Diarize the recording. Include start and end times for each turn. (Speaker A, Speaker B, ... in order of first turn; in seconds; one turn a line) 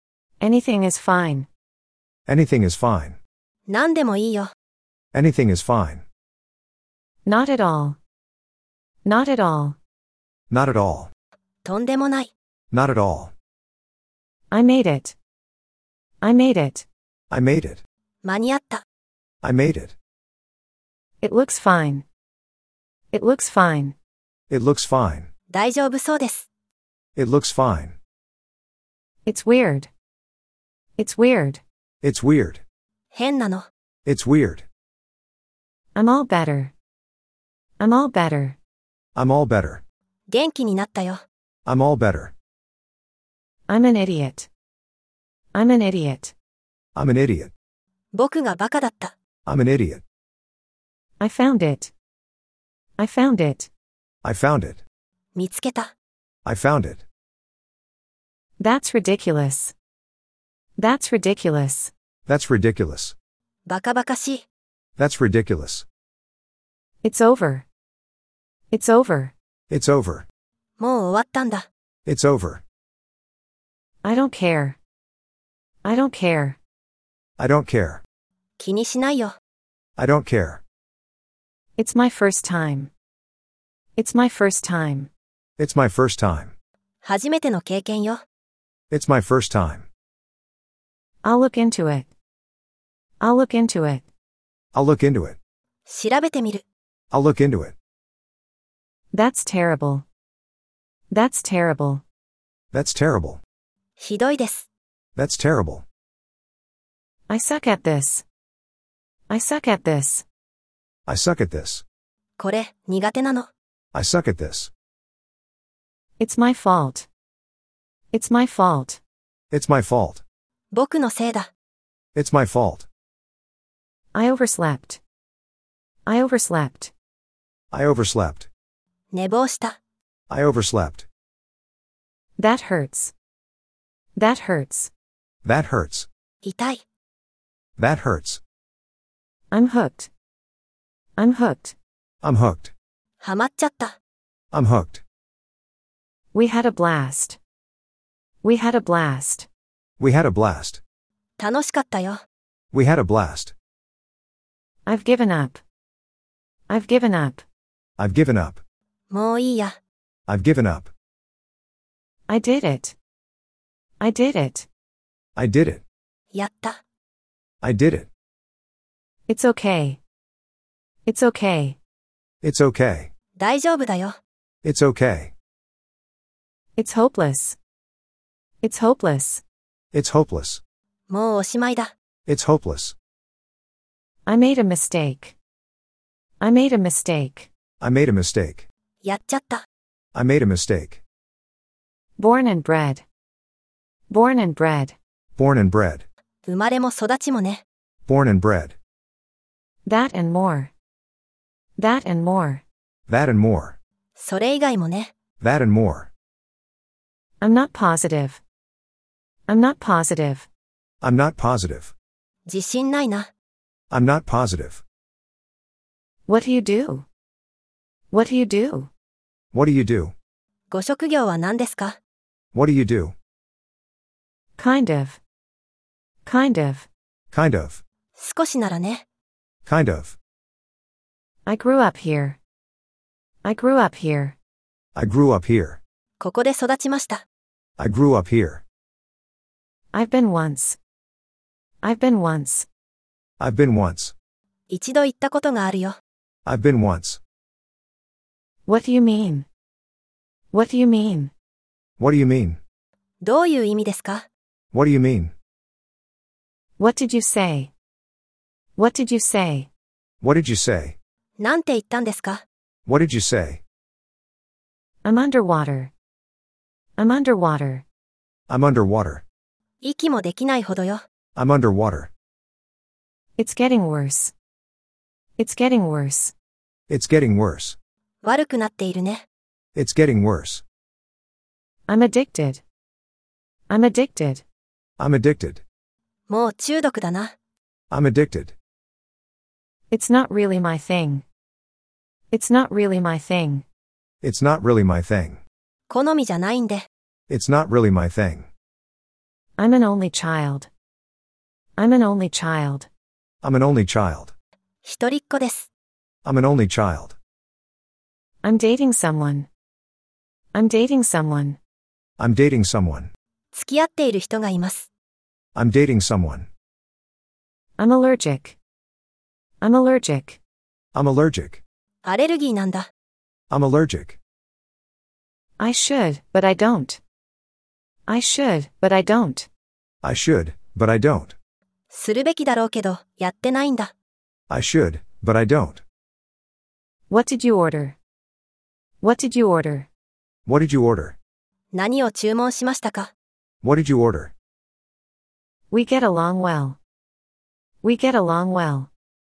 Speaker A: 0.4-1.5
Speaker B: 2.3-3.2
Speaker C: 3.7-4.5
Speaker B: 5.1-6.0
Speaker A: 7.3-8.0
Speaker A: 9.0-9.8
Speaker B: 10.5-11.1
Speaker C: 11.7-12.3
Speaker B: 12.7-13.3
Speaker A: 14.5-15.2
Speaker A: 16.2-16.9
Speaker B: 17.3-17.8
Speaker C: 18.2-18.8
Speaker B: 19.4-19.9
Speaker A: 21.2-22.1
Speaker A: 23.1-24.0
Speaker B: 24.5-25.3
Speaker C: 25.5-26.5
Speaker B: 27.2-28.0
Speaker A: 29.2-29.9
Speaker A: 31.0-31.6
Speaker B: 32.0-32.6
Speaker C: 33.1-33.7
Speaker B: 34.1-34.7
Speaker A: 36.0-36.7
Speaker A: 37.8-38.6
Speaker B: 39.1-39.8
Speaker C: 40.3-41.2
Speaker B: 41.7-42.3
Speaker A: 43.7-44.5
Speaker A: 45.5-46.3
Speaker B: 47.0-47.5
Speaker C: 48.1-49.1
Speaker B: 49.5-50.0
Speaker A: 51.2-51.9
Speaker A: 53.0-53.7
Speaker B: 54.2-54.8
Speaker C: 55.4-55.9
Speaker B: 56.5-57.0
Speaker A: 58.6-59.7
Speaker A: 60.8-61.9
Speaker B: 62.3-63.1
Speaker C: 63.7-64.5
Speaker B: 65.0-65.8
Speaker A: 67.0-67.7
Speaker A: 68.7-69.3
Speaker B: 69.7-70.3
Speaker C: 70.8-71.7
Speaker B: 72.1-72.6
Speaker A: 74.0-74.8
Speaker A: 75.8-76.6
Speaker B: 77.4-78.0
Speaker C: 78.6-79.4
Speaker B: 80.0-80.6
Speaker A: 81.8-82.9
Speaker A: 84.0-85.1
Speaker B: 85.6-86.5
Speaker C: 87.0-88.2
Speaker B: 88.9-89.9
Speaker A: 91.2-92.1
Speaker A: 93.2-94.1
Speaker B: 94.7-95.4
Speaker C: 95.9-96.6
Speaker B: 97.1-97.8
Speaker A: 99.1-100.1
Speaker A: 101.1-102.0
Speaker B: 102.7-103.4
Speaker C: 104.0-104.7
Speaker B: 105.2-105.8
Speaker A: 107.3-108.2
Speaker A: 109.3-110.2
Speaker B: 111.1-111.8
Speaker C: 112.4-113.5
Speaker B: 113.9-114.7
Speaker A: 116.2-117.1
Speaker A: 118.1-119.0
Speaker B: 119.5-120.2
Speaker C: 120.7-121.5
Speaker B: 122.2-122.9
Speaker A: 124.1-125.0
Speaker A: 126.1-126.9
Speaker B: 127.7-128.5
Speaker C: 129.1-129.8
Speaker B: 130.3-131.1
Speaker A: 132.4-133.1
Speaker A: 134.2-134.9
Speaker B: 135.4-136.1
Speaker C: 136.4-136.8
Speaker B: 137.8-138.4
Speaker A: 139.5-140.1
Speaker A: 141.2-141.8
Speaker B: 142.2-142.7
Speaker C: 143.2-143.9
Speaker B: 144.5-145.0
Speaker A: 146.3-147.4
Speaker A: 148.4-149.5
Speaker B: 150.0-150.8
Speaker C: 151.4-152.2
Speaker B: 152.7-153.5
Speaker A: 154.9-155.6
Speaker A: 156.7-157.4
Speaker B: 158.0-158.6
Speaker C: 159.1-159.8
Speaker B: 160.3-160.9
Speaker A: 162.3-163.0
Speaker A: 164.0-164.7
Speaker B: 165.4-165.8
Speaker C: 166.3-166.8
Speaker B: 167.6-168.1
Speaker A: 169.3-170.0
Speaker A: 171.1-171.8
Speaker B: 172.4-173.1
Speaker C: 173.4-174.2
Speaker B: 174.6-175.3
Speaker A: 176.8-177.6
Speaker A: 178.6-179.4
Speaker B: 179.9-180.6
Speaker C: 181.1-181.9
Speaker B: 182.3-182.9
Speaker A: 184.3-185.4
Speaker A: 186.4-187.5
Speaker B: 187.8-188.7
Speaker C: 189.0-189.6
Speaker B: 190.1-191.0
Speaker A: 192.2-193.0
Speaker A: 194.1-195.0
Speaker B: 195.4-196.1
Speaker C: 196.5-197.6
Speaker B: 198.1-198.8
Speaker A: 199.9-200.7
Speaker A: 201.8-202.6
Speaker B: 203.1-203.8
Speaker C: 204.2-205.1
Speaker B: 205.4-206.1
Speaker A: 207.4-208.4
Speaker A: 209.5-210.5
Speaker B: 211.0-211.9
Speaker C: 212.5-213.3
Speaker B: 213.9-214.8
Speaker A: 216.3-217.1
Speaker A: 218.1-218.9
Speaker B: 219.5-220.1
Speaker C: 220.7-222.0
Speaker B: 222.5-223.2
Speaker A: 224.6-225.2
Speaker A: 226.2-226.9
Speaker B: 227.3-227.8
Speaker C: 228.2-229.0
Speaker B: 229.7-230.2
Speaker A: 231.5-232.4
Speaker A: 233.4-234.4
Speaker B: 234.9-235.8
Speaker C: 236.2-237.2
Speaker B: 237.8-238.6
Speaker A: 239.9-240.8
Speaker A: 241.8-242.7
Speaker B: 243.4-244.1
Speaker C: 244.7-246.0
Speaker B: 246.5-247.2
Speaker A: 248.7-249.5
Speaker A: 250.5-251.3
Speaker B: 252.0-252.6
Speaker C: 253.2-254.3
Speaker B: 254.7-255.3
Speaker A: 256.8-257.7
Speaker A: 258.8-259.7
Speaker B: 260.2-261.0
Speaker C: 261.4-262.4
Speaker B: 262.9-263.6
Speaker A: 265.0-265.9
Speaker A: 267.0-267.9
Speaker B: 268.5-269.2
Speaker C: 269.8-271.0
Speaker B: 271.4-272.1
Speaker A: 273.4-274.3
Speaker A: 275.4-276.3
Speaker B: 276.9-277.8
Speaker C: 278.2-279.2
Speaker B: 279.8-280.6
Speaker A: 281.9-282.6
Speaker A: 283.7-284.4
Speaker B: 285.0-285.6
Speaker C: 286.3-287.3
Speaker B: 287.9-288.6
Speaker A: 289.9-291.2
Speaker A: 292.3-293.6
Speaker B: 294.2-295.4
Speaker C: 295.9-296.9
Speaker B: 297.3-298.5
Speaker A: 299.6-300.7
Speaker A: 301.8-302.9
Speaker B: 303.4-304.3
Speaker C: 304.9-305.7
Speaker B: 306.2-307.2
Speaker A: 308.4-309.5
Speaker A: 310.5-311.6
Speaker B: 312.2-313.1
Speaker C: 313.5-314.9
Speaker B: 315.6-316.5
Speaker A: 317.8-318.6
Speaker A: 319.6-320.4
Speaker B: 320.9-321.6
Speaker C: 322.1-322.9
Speaker B: 323.5-324.2
Speaker A: 325.6-327.0
Speaker A: 328.1-329.5
Speaker B: 330.0-331.4
Speaker C: 331.9-333.9
Speaker B: 334.5-335.8
Speaker A: 337.1-338.0
Speaker A: 339.0-339.9
Speaker B: 340.5-341.2
Speaker C: 341.7-343.1
Speaker B: 343.6-344.3
Speaker A: 345.7-346.8
Speaker A: 347.8-348.9